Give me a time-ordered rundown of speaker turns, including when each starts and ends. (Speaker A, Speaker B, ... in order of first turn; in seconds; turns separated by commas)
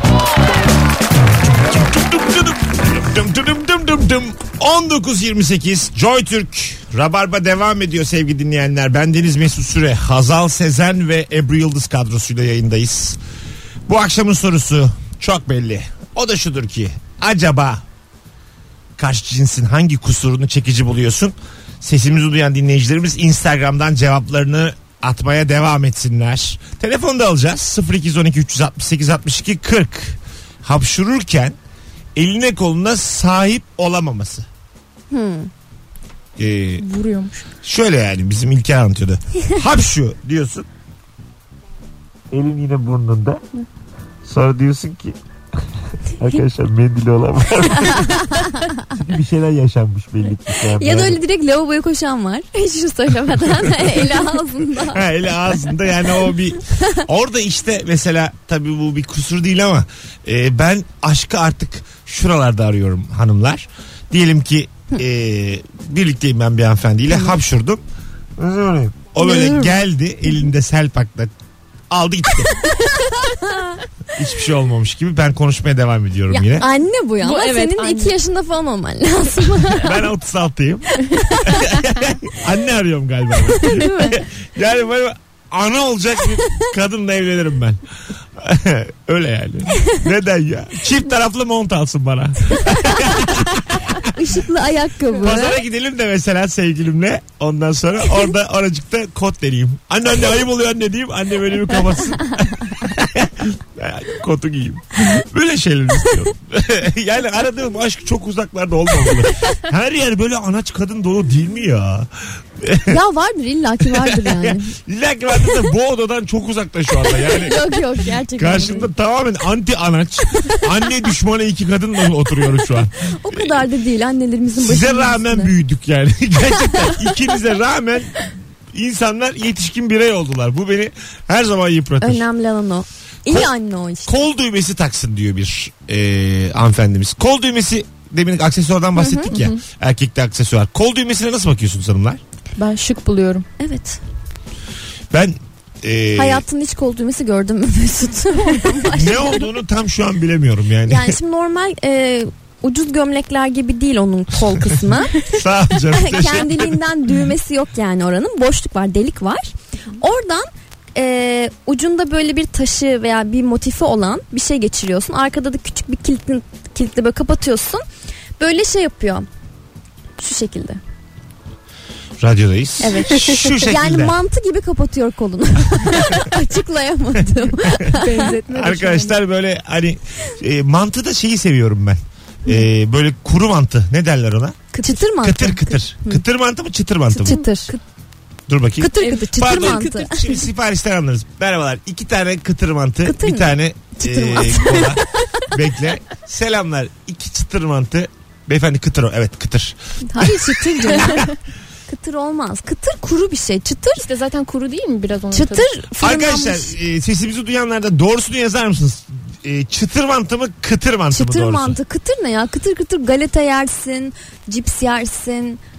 Speaker A: 1.5-13.2, Speaker A: 13.8-17.8, Speaker A: 19.0-31.6, Speaker A: 32.1-34.5, Speaker B: 35.1-35.5, Speaker A: 36.4-36.8, Speaker C: 36.8-37.5, Speaker A: 37.6-40.6, Speaker A: 42.3-43.4, Speaker A: 44.2-45.2, Speaker A: 46.0-51.2, Speaker B: 47.9-48.8, Speaker B: 50.6-55.3, Speaker A: 54.9-67.8, Speaker A: 68.4-71.3, Speaker B: 69.2-69.8, Speaker A: 71.9-72.5, Speaker B: 72.7-73.8, Speaker A: 74.1-76.7, Speaker B: 76.3-80.0, Speaker C: 77.2-78.2, Speaker A: 79.8-87.8, Speaker B: 81.3-81.6, Speaker B: 83.6-84.2, Speaker A: 88.4-94.1, Speaker B: 92.7-93.2, Speaker B: 93.9-95.6, Speaker A: 95.2-113.0, Speaker B: 112.9-114.7, Speaker A: 113.8-117.7, Speaker B: 117.1-118.9, Speaker A: 118.3-123.6, Speaker B: 123.0-125.5, Speaker A: 124.5-132.2, Speaker B: 132.0-134.2, Speaker A: 133.3-133.5, Speaker A: 134.1-142.2, Speaker B: 138.9-139.3, Speaker C: 139.3-139.6, Speaker C: 142.6-143.5, Speaker B: 143.6-144.0, Speaker A: 145.1-146.4, Speaker B: 146.1-149.5, Speaker A: 148.9-151.2, Speaker B: 150.8-155.2, Speaker A: 155.2-156.8, Speaker B: 155.9-167.8, Speaker B: 168.4-169.3, Speaker B: 170.2-170.8, Speaker A: 172.2-174.2, Speaker B: 172.8-178.3, Speaker C: 177.9-179.2, Speaker A: 178.5-187.4, Speaker B: 184.7-186.2, Speaker B: 187.1-187.8, Speaker C: 187.2-187.7, Speaker A: 188.5-201.3, Speaker B: 188.8-190.3, Speaker C: 189.0-190.4, Speaker B: 193.0-195.4, Speaker B: 200.1-201.3, Speaker C: 200.8-201.3, Speaker B: 201.9-204.1, Speaker C: 204.0-205.7, Speaker B: 205.3-206.7, Speaker A: 206.0-211.8, Speaker B: 211.1-215.6